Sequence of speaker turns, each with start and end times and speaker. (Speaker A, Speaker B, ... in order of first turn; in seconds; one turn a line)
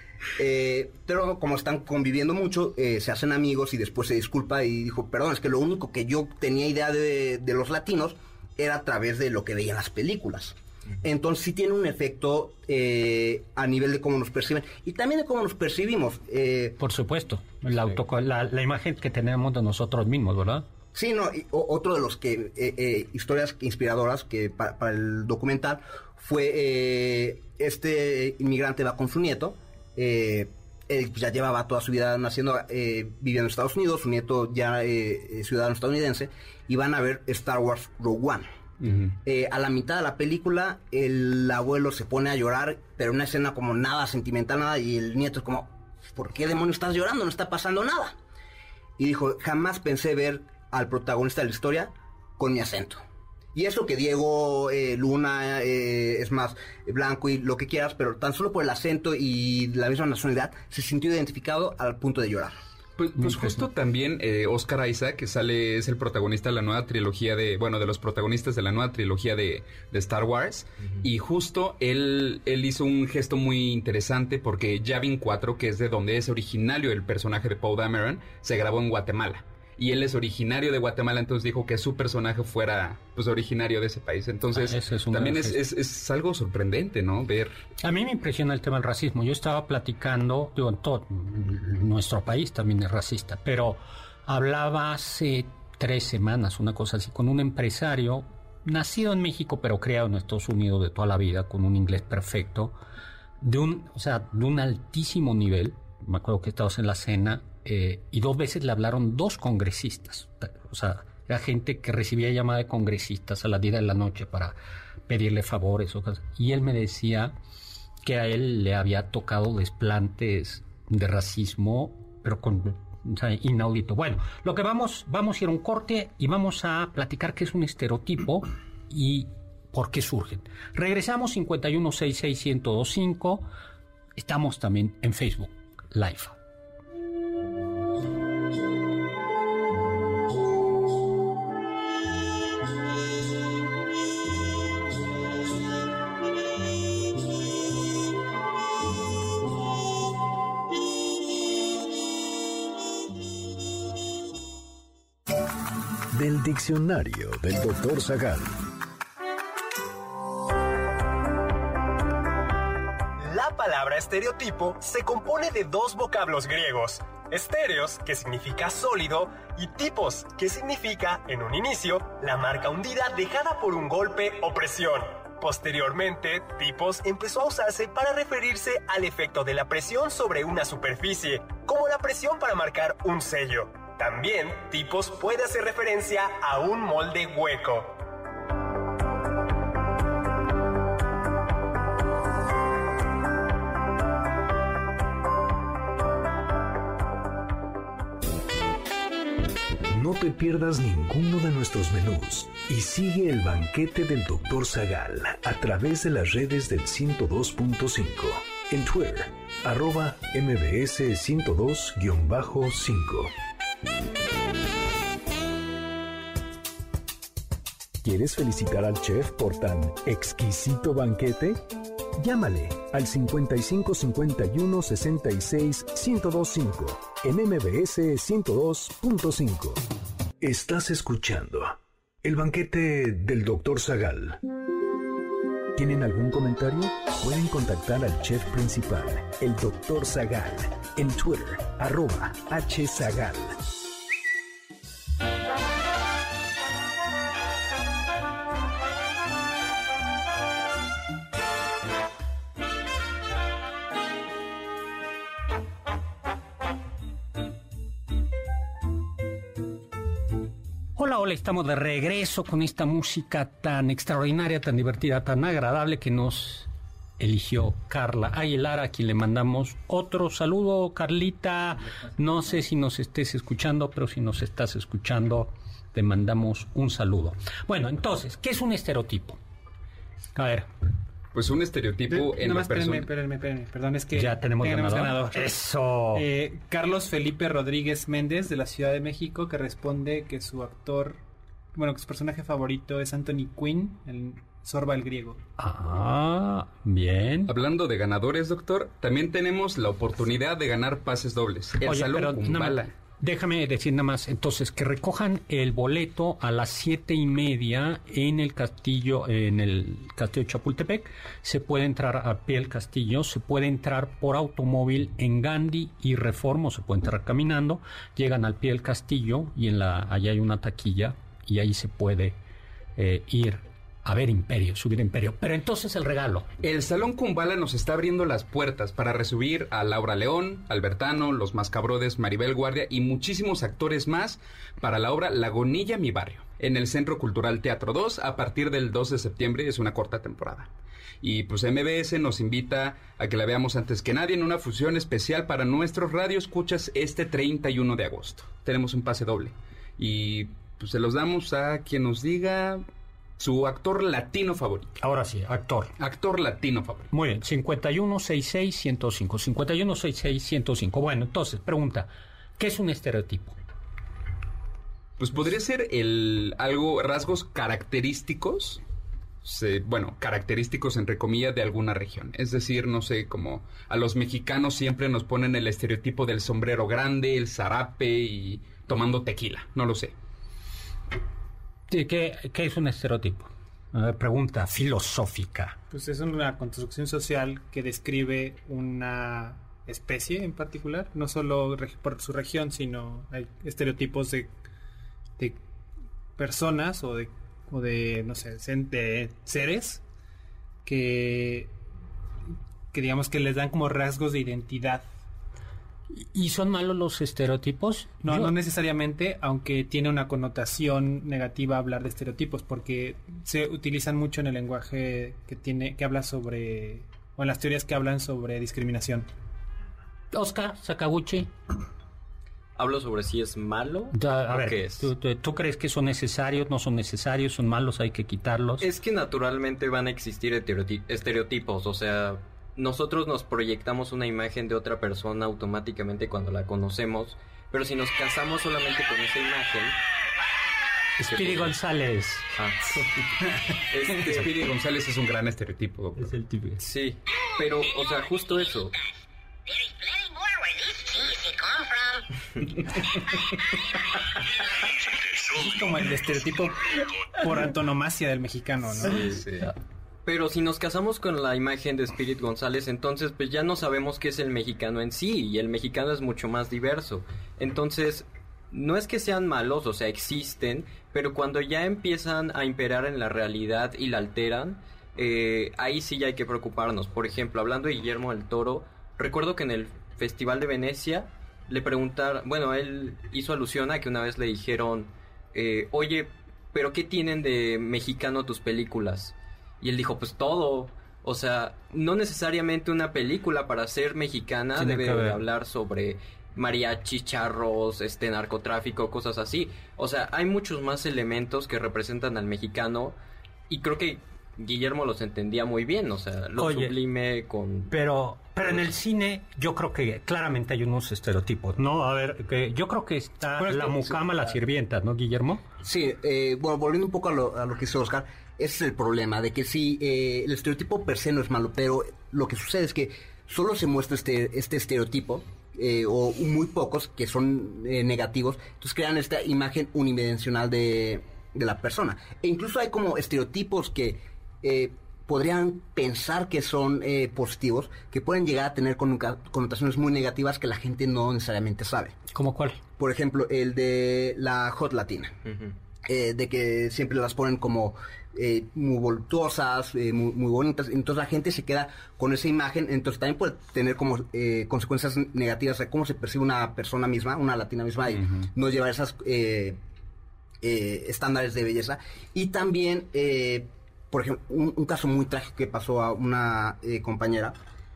Speaker A: 0.4-16.8
Speaker B: 16.8-20.6
Speaker A: 20.9-38.5
Speaker C: 38.8-39.1
Speaker A: 39.1-48.2
Speaker A: 49.0-53.0
Speaker A: 53.5-62.5
Speaker C: 63.0-87.5
Speaker B: 63.2-63.6
Speaker B: 84.5-85.6
Speaker B: 87.8-102.8
Speaker B: 103.4-114.6
Speaker B: 115.1-117.3
Speaker B: 118.0-133.5
Speaker B: 134.2-136.4
Speaker D: 156.1-158.6
Speaker E: 163.2-188.0
Speaker D: 199.9-213.3
Speaker D: 218.0-221.6
Speaker D: 222.2-229.8
Speaker D: 230.4-234.4
Speaker D: 235.8-243.6
Speaker B: 261.0-279.4
Speaker B: 280.4-280.7
Speaker C: 281.3-283.1
Speaker F: 282.1-285.6
Speaker B: 284.1-286.2
Speaker F: 286.1-291.2
Speaker F: 291.8-295.4
Speaker B: 295.6-297.5
Speaker C: 297.5-302.9
Speaker B: 301.8-322.4
Speaker B: 323.0-326.5
Speaker C: 326.6-340.7
Speaker C: 341.2-352.9
Speaker C: 353.4-354.9
Speaker B: 355.0-355.9
Speaker C: 356.0-357.1
Speaker B: 357.1-363.6
Speaker C: 365.2-368.8
Speaker C: 369.4-380.1
Speaker B: 381.9-385.8
Speaker F: 385.9-394.5
Speaker F: 396.4-400.0
Speaker F: 400.9-401.7
Speaker F: 402.9-405.1
Speaker B: 406.1-408.5
Speaker F: 408.2-419.3
Speaker B: 420.3-421.5
Speaker G: 422.8-425.1
Speaker B: 424.1-428.9
Speaker G: 428.8-440.0
Speaker B: 441.2-442.5
Speaker G: 441.3-441.7
Speaker G: 443.9-444.5
Speaker C: 444.1-446.3
Speaker B: 446.2-446.8
Speaker G: 446.8-448.9
Speaker F: 455.5-459.2
Speaker G: 459.0-459.8
Speaker G: 460.3-503.2
Speaker B: 494.8-495.4
Speaker G: 503.7-507.9
Speaker B: 506.6-506.9
Speaker B: 507.9-515.6
Speaker F: 513.6-514.2
Speaker A: 515.8-542.2
Speaker B: 542.3-542.8
Speaker A: 543.0-545.4
Speaker A: 546.1-559.8
Speaker A: 560.6-567.6